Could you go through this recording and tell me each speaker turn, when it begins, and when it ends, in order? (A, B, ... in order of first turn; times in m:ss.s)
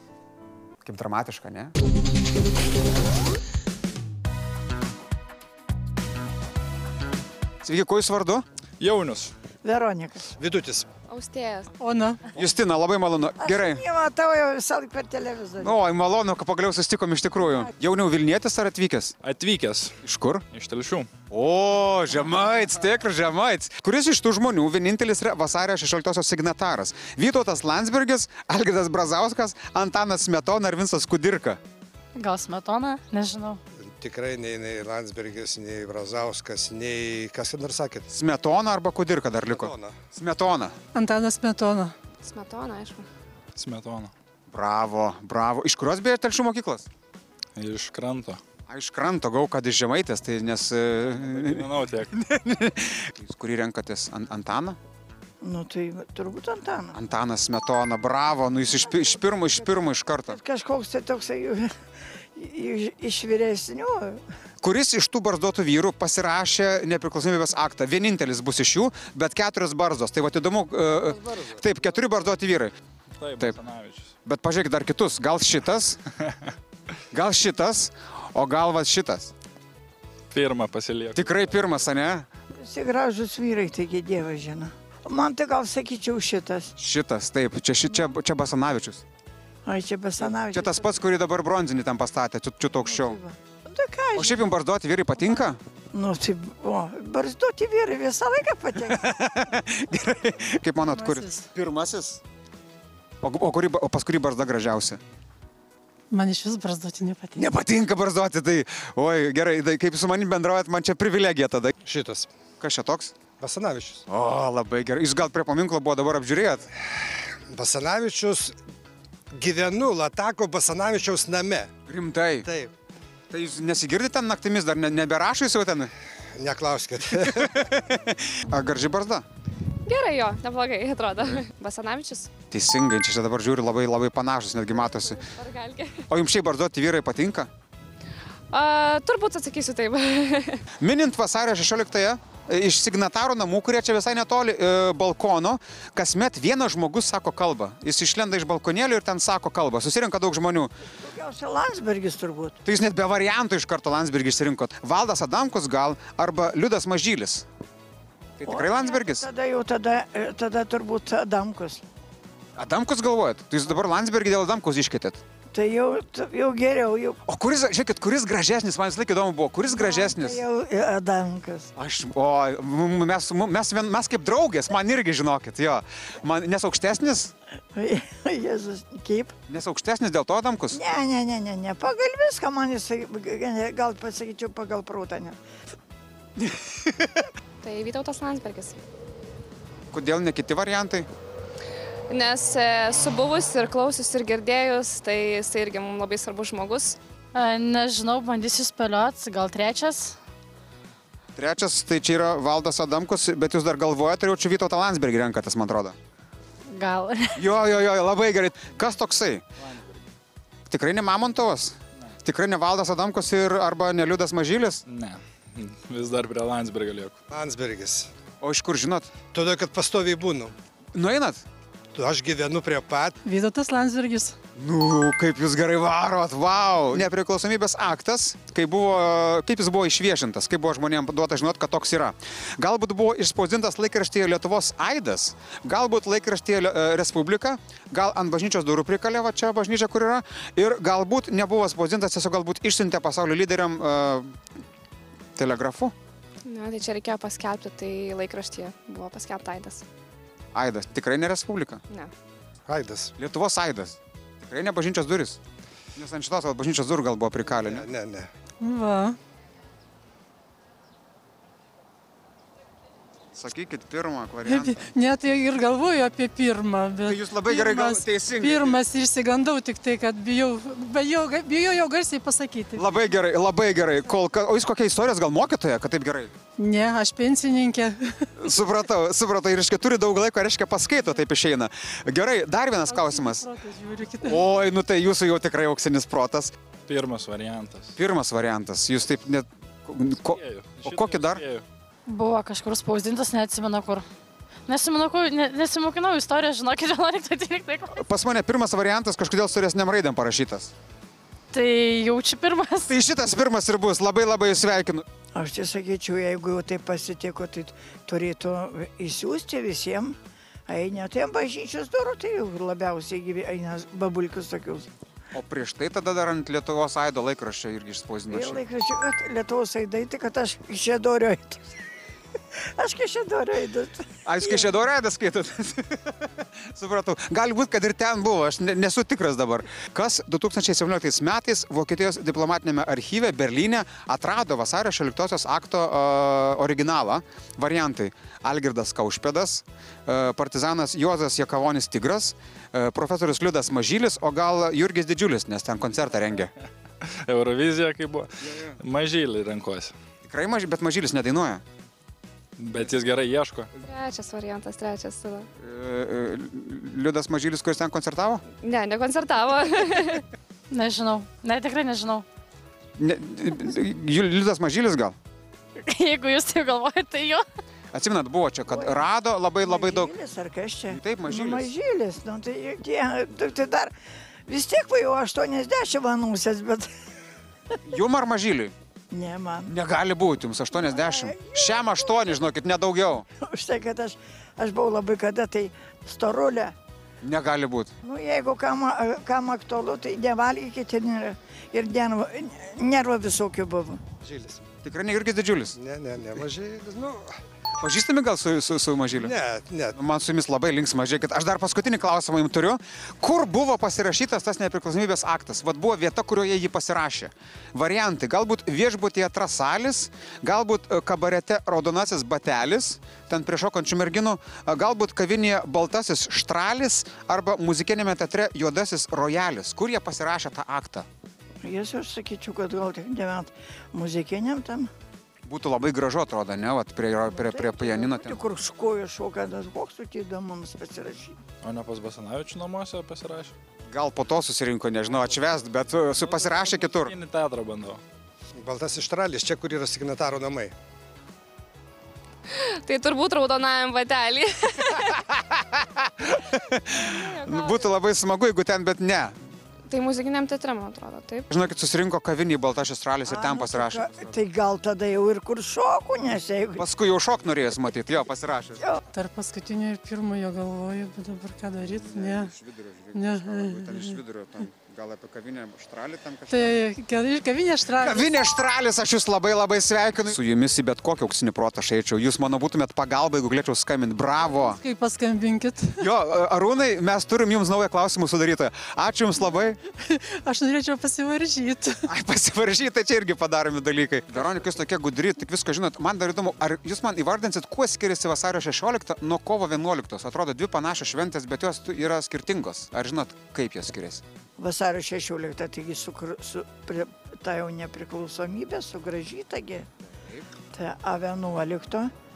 0:00.8-0:01.7 A
0:07.6-0:08.4 A
0:08.8-0:09.3 B
0:09.6-0:10.3 C
0:10.4-0:10.9 D
0:11.1-0:11.7 E
0:11.8-0:12.2 F
0:12.4-0:13.8 A
0:13.4-0:15.8 C
0:15.6-0:19.1 A
0:19.2-0:20.0 B
0:20.0-0:20.4 A
0:20.5-0:21.1 B
0:21.3-0:31.6 A
0:32.2-0:33.6 G
0:33.8-0:38.1 D
0:38.1-0:40.8 A
0:39.5-0:40.0 D
0:40.9-0:41.9 F
0:42.2-0:43.0 E
0:43.6-0:44.1 B
0:44.5-0:46.9 A
0:47.6-0:48.4 B
0:48.7-0:54.8 A
0:51.2-0:52.2 B
0:55.4-0:57.0 C
0:56.9-1:00.4 A
1:00.3-1:01.7 C
1:02.4-1:04.2 C
1:04.6-1:12.7 A
1:13.2-1:14.1 B
1:14.2-1:16.0 A
1:17.1-1:19.3 A
1:20.3-1:21.8 B
1:21.2-1:22.3 A
1:22.6-1:26.7 C
1:26.8-1:29.0 A
1:29.6-1:30.9 C
1:30.5-1:33.2 A
1:32.8-1:34.4 C
1:34.2-1:35.6 A
1:35.9-1:39.2 C
1:38.9-1:42.2 A
1:40.9-1:41.4 F
1:43.2-1:45.0 A
1:46.1-1:47.5 F
1:47.3-1:51.7 A
1:51.8-1:52.3 D
1:52.6-1:53.1 A
1:53.4-1:54.0 D
1:54.1-1:56.7 A
1:57.5-1:58.6 D
1:59.3-2:01.7 D
2:01.9-2:02.5 A
2:02.4-2:02.7 D
2:03.3-2:05.9 A
2:06.4-2:07.6 D
2:07.3-2:09.2 A
2:09.9-2:12.3 E
2:12.5-2:15.2 A
2:14.8-2:16.0 E
2:16.1-2:17.5 A
2:18.5-2:20.6 E
2:20.8-2:30.7 A
2:31.0-2:32.6 C
2:32.6-2:37.4 A
2:38.4-2:39.3 A
2:38.5-2:41.8 C
2:42.6-2:45.2 A
2:45.5-2:47.2 C
2:47.2-2:50.4 A
2:49.7-2:51.7 C
2:51.8-2:57.3 A
2:57.7-2:59.3 C
2:59.5-3:00.8 A
3:00.7-3:05.4 C
3:06.5-3:06.9 A
3:07.6-3:08.8 E
3:09.9-3:11.1 A
3:12.1-3:17.0 E
3:17.3-3:20.2 G
3:21.4-3:26.0 A
3:26.7-3:27.4 G
3:27.4-3:29.4 A
3:30.7-3:34.8 A
3:34.9-3:37.2 B
3:37.3-3:38.1 D
3:38.4-3:39.1 A
3:39.3-3:40.5 D
3:41.0-3:41.4 A
3:41.9-3:43.2 D
3:43.2-3:44.4 F
3:44.6-4:04.3 A
4:05.4-4:05.9 A
4:06.5-4:09.8 E
4:10.5-4:11.8 A
4:12.7-4:13.1 D
4:13.2-4:15.4 A
4:16.0-4:17.9 A
4:17.6-4:18.3 D
4:18.6-4:19.2 F
4:23.3-4:24.8 A
4:24.4-4:32.9 F
4:27.0-4:28.8 A
4:32.8-4:36.3 A
4:36.6-4:38.3 F
4:38.4-4:43.5 A
4:42.9-4:44.4 F
4:44.2-4:46.5 A
4:46.9-4:48.0 B
4:48.0-4:51.4 A
4:50.3-4:51.6 B
4:52.1-4:54.1 G
4:54.7-4:58.0 G
4:57.9-5:00.7 A
5:01.5-5:02.9 G
5:02.9-5:05.0 A
5:05.3-5:10.2 C
5:10.7-5:14.9 C
5:15.3-5:18.6 A
5:18.3-5:21.8 C
5:22.8-5:24.7 C
5:24.2-5:46.5 A
5:47.0-5:49.9 B
5:48.5-5:48.7 A
5:50.3-5:51.6 A
5:52.6-5:53.7 B
5:53.8-5:55.5 E
5:55.6-5:58.4 A
5:58.6-6:00.2 E
6:00.7-6:02.2 G
6:03.0-6:05.2 A
6:05.8-6:07.5 G
6:07.9-6:10.1 A
6:08.7-6:09.1 C
6:09.6-6:13.9 C
6:10.9-6:11.7 A
6:14.5-6:16.9 C
6:17.9-6:18.7 A
6:19.1-6:19.7 C
6:19.7-6:23.3 A
6:20.8-6:22.4 C
6:23.4-6:26.8 C
6:27.2-6:27.9 A
6:28.0-6:34.0 C
6:34.2-6:34.6 D
6:34.8-6:35.8 A
6:35.8-6:37.4 D
6:37.8-6:39.3 A
6:39.2-6:40.0 D
6:40.0-7:01.1 A
7:01.6-7:04.9 C
7:05.5-7:08.4 A
7:07.3-7:11.4 C
7:11.6-7:13.5 B
7:13.9-7:17.1 A
7:16.1-7:18.0 B
7:18.6-7:20.7 D
7:22.5-7:25.2 E
7:25.2-7:29.4 A
7:26.9-7:27.9 E
7:29.9-7:31.5 E
7:31.5-7:34.4 A
7:33.3-7:36.8 C
7:36.8-7:38.9 A
7:39.1-7:42.5 F
7:41.8-7:46.8 A
7:43.1-7:44.2 F
7:46.5-7:48.3 F
7:48.0-7:54.8 A
7:54.5-7:56.0 F
7:56.0-7:59.8 A
8:00.0-8:02.0 F
8:02.1-8:14.2 A
8:14.6-8:19.9 C
8:20.1-8:20.5 A
8:20.7-8:22.1 C